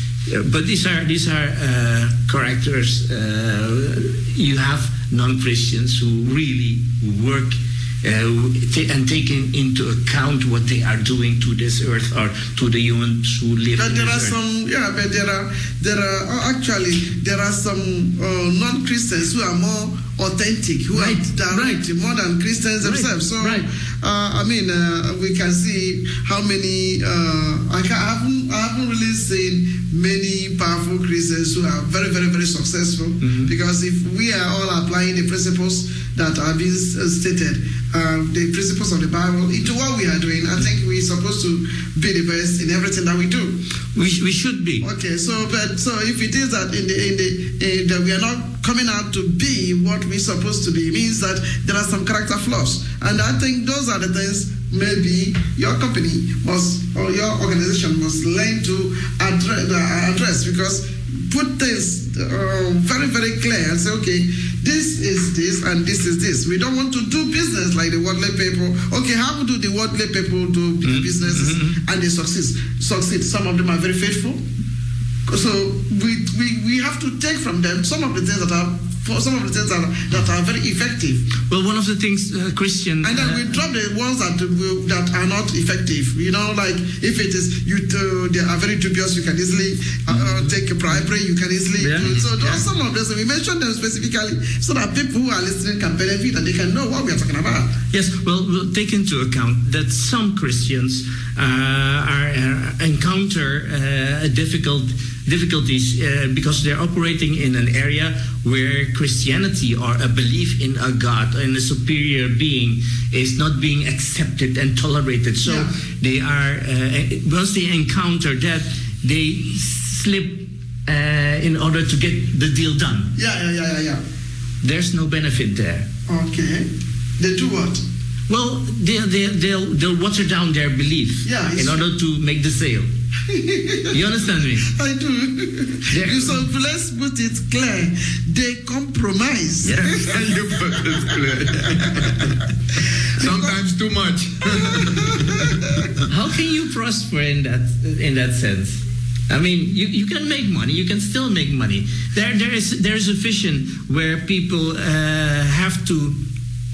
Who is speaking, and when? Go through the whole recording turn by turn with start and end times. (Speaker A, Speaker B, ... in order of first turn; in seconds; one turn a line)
Speaker A: 0.3-14.4
Speaker B: 13.8-43.6
Speaker A: 20.9-21.8
Speaker A: 22.8-23.6
Speaker A: 33.2-33.5
Speaker A: 43.9-44.9
Speaker B: 44.8-74.4
Speaker A: 70.8-71.8
Speaker B: 75.3-81.2
Speaker A: 81.4-83.6
Speaker B: 83.0-97.8
Speaker A: 90.1-91.0
Speaker A: 91.8-92.6
Speaker A: 97.9-123.1
Speaker B: 115.4-115.7
Speaker B: 123.2-124.0
Speaker A: 124.6-125.9
Speaker B: 126.1-127.8
Speaker A: 128.3-132.9
Speaker B: 131.2-131.8
Speaker B: 133.3-134.0
Speaker A: 133.9-134.7
Speaker B: 134.6-142.2
Speaker A: 135.9-136.4
Speaker C: 139.7-142.3
Speaker C: 143.2-144.9
Speaker B: 143.2-143.6
Speaker B: 144.5-145.6
Speaker A: 146.1-156.2